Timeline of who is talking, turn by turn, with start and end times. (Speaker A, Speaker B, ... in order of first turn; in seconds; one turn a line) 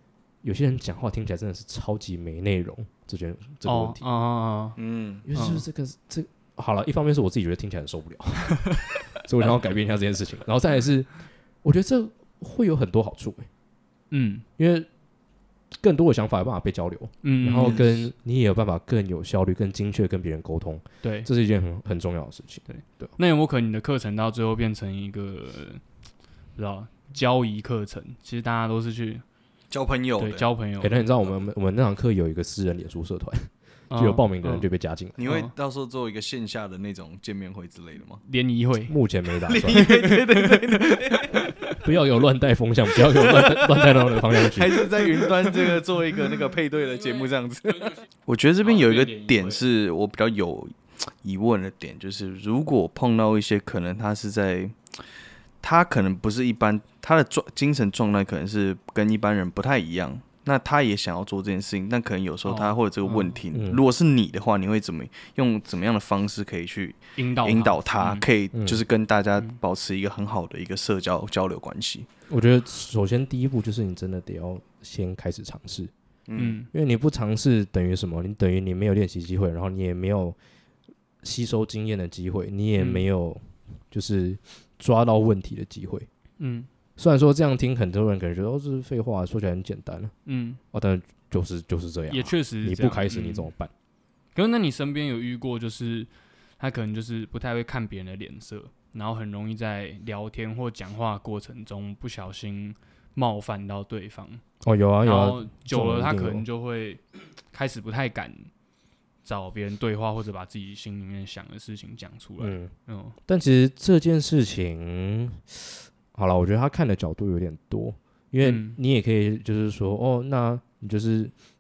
Speaker A: 0.4-4.0
Speaker B: 3.6-4.8
Speaker C: 4.8-5.2
Speaker A: 5.2-13.5
Speaker B: 5.3-5.6
Speaker B: 14.1-14.4
Speaker A: 14.6-14.9
Speaker A: 15.7-23.1
Speaker B: 17.2-18.0
Speaker B: 21.0-21.3
Speaker B: 22.7-25.8
Speaker B: 26.6-29.2
Speaker C: 29.7-30.5
Speaker B: 30.2-31.1
Speaker A: 30.8-35.2
Speaker B: 33.9-34.7
Speaker C: 35.2-38.2
Speaker B: 35.2-35.5
Speaker B: 38.2-38.9
Speaker A: 38.9-40.0
Speaker C: 39.5-41.5
Speaker B: 39.7-41.8
Speaker A: 41.8-44.9
Speaker C: 43.1-54.8
Speaker B: 48.6-49.6
Speaker C: 55.6-72.1
Speaker B: 62.4-63.4
Speaker A: 63.5-63.8
Speaker B: 67.2-68.2
Speaker A: 68.5-68.8
Speaker A: 72.3-75.9
Speaker C: 76.3-76.6
Speaker B: 76.3-76.7
Speaker A: 76.7-80.4
Speaker A: 81.2-86.1
Speaker B: 82.8-83.0
Speaker B: 86.4-86.7
Speaker A: 87.0-90.1
Speaker B: 90.2-90.6
Speaker A: 90.7-93.7
Speaker B: 92.1-93.5
Speaker B: 94.3-104.4
Speaker A: 104.6-106.4
Speaker B: 105.0-108.5
Speaker B: 109.2-113.2
Speaker A: 112.4-112.7
Speaker A: 113.2-121.3
Speaker B: 118.4-118.8